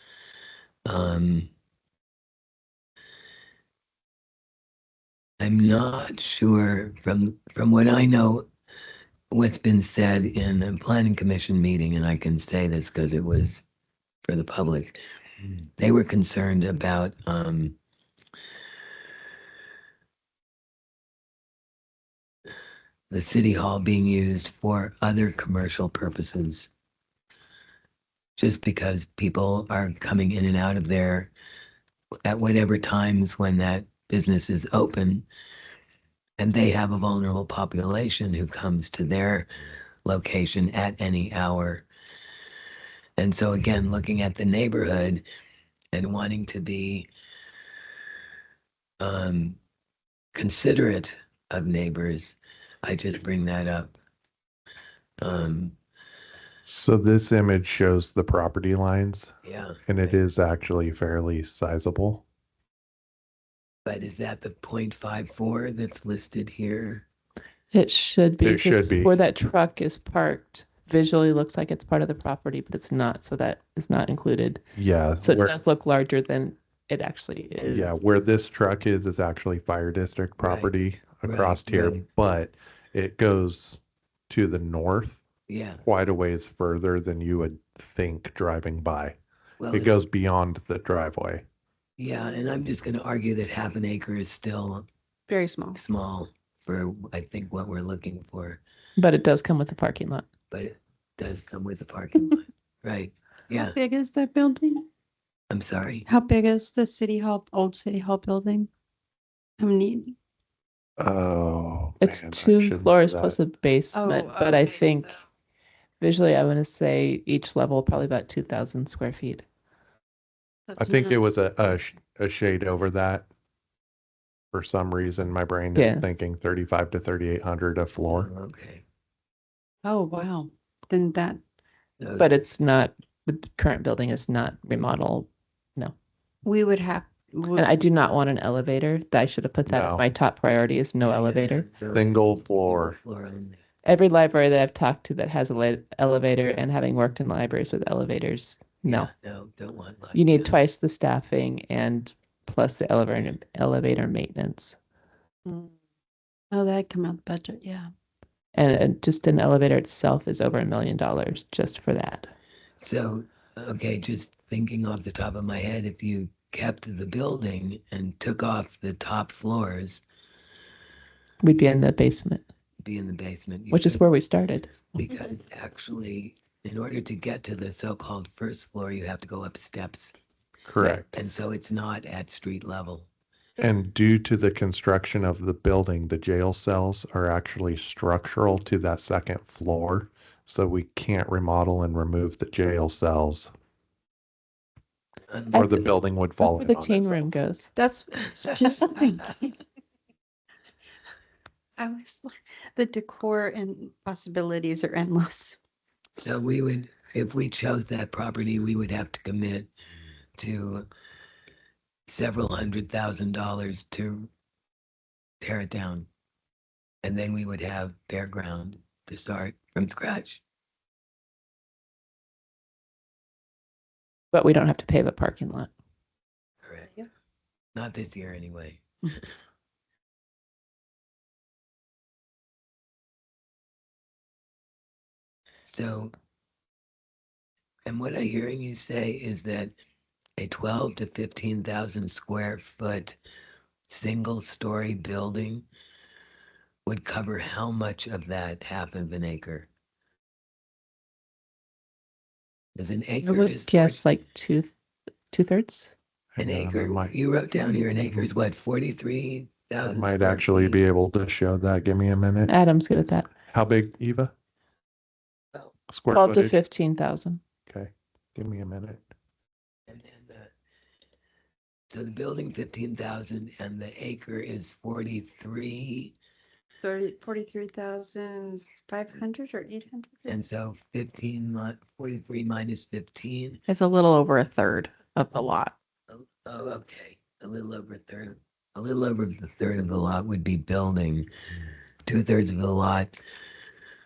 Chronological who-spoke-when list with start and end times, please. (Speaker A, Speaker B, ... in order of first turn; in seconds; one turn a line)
Speaker A: 0.9-1.5
Speaker A: 5.4-8.5
Speaker A: 9.3-13.6
Speaker A: 14.2-15.0
Speaker A: 15.8-17.8
Speaker A: 23.1-26.7
Speaker A: 28.4-31.3
Speaker A: 32.3-35.3
Speaker A: 36.4-39.5
Speaker A: 40.0-41.9
Speaker A: 43.2-45.2
Speaker A: 45.9-47.1
Speaker A: 49.0-49.6
Speaker A: 50.3-53.9
Speaker A: 55.2-55.8
Speaker B: 56.7-59.3
Speaker A: 59.4-60.2
Speaker B: 59.9-62.2
Speaker A: 63.9-67.1
Speaker C: 67.7-74.6
Speaker B: 68.4-69.1
Speaker B: 74.8-75.5
Speaker C: 75.2-77.9
Speaker B: 77.6-85.2
Speaker A: 80.4-80.7
Speaker A: 81.2-82.0
Speaker A: 85.5-85.8
Speaker B: 85.8-89.2
Speaker A: 89.6-90.0
Speaker B: 89.7-91.4
Speaker A: 92.0-94.9
Speaker D: 95.3-95.8
Speaker A: 95.7-98.6
Speaker C: 99.0-100.3
Speaker A: 100.5-103.8
Speaker D: 103.5-104.9
Speaker A: 105.5-106.1
Speaker D: 106.1-108.7
Speaker D: 109.6-110.2
Speaker B: 111.0-113.4
Speaker C: 112.0-115.2
Speaker D: 113.9-115.1
Speaker C: 116.0-119.5
Speaker D: 120.7-121.2
Speaker B: 120.8-123.3
Speaker B: 124.5-128.3
Speaker C: 125.8-126.0
Speaker A: 128.1-128.8
Speaker D: 129.8-131.4
Speaker A: 132.0-132.3
Speaker C: 132.2-135.9
Speaker D: 136.4-137.7
Speaker C: 137.5-141.7
Speaker B: 139.7-140.0
Speaker A: 141.0-142.1
Speaker B: 141.9-143.0
Speaker A: 142.6-143.6
Speaker C: 143.8-149.1
Speaker A: 148.9-150.6
Speaker C: 150.1-154.8
Speaker D: 155.5-155.7
Speaker D: 156.5-157.9
Speaker C: 158.6-162.3
Speaker A: 162.8-170.0
Speaker C: 171.4-172.4
Speaker A: 172.8-174.0
Speaker C: 173.7-174.9
Speaker A: 174.9-180.2
Speaker B: 180.7-181.1
Speaker A: 180.8-183.1
Speaker B: 183.6-193.5
Speaker A: 195.3-195.9
Speaker C: 195.5-195.8
Speaker B: 195.5-197.2
Speaker C: 196.4-197.7
Speaker D: 197.8-199.6
Speaker D: 201.8-205.6
Speaker A: 206.2-209.7
Speaker A: 210.4-210.9
Speaker A: 212.1-214.3
Speaker A: 215.4-216.1
Speaker A: 217.0-220.4
Speaker C: 224.3-225.7
Speaker A: 226.6-227.0
Speaker A: 227.8-228.8
Speaker A: 235.7-236.1
Speaker A: 237.9-239.7
Speaker A: 240.4-243.2
Speaker A: 243.9-245.7
Speaker A: 246.9-249.7
Speaker A: 252.8-254.0
Speaker C: 253.2-254.7
Speaker C: 255.3-255.9
Speaker B: 256.3-257.1
Speaker A: 256.4-260.8
Speaker B: 259.9-262.5
Speaker C: 262.5-263.4
Speaker B: 263.4-264.3
Speaker B: 265.9-266.6
Speaker C: 266.1-267.4
Speaker B: 267.7-269.1
Speaker A: 269.9-270.5
Speaker A: 271.9-276.1
Speaker D: 276.8-280.4
Speaker A: 280.3-283.6
Speaker E: 283.7-285.7
Speaker A: 286.1-291.3
Speaker A: 292.1-293.2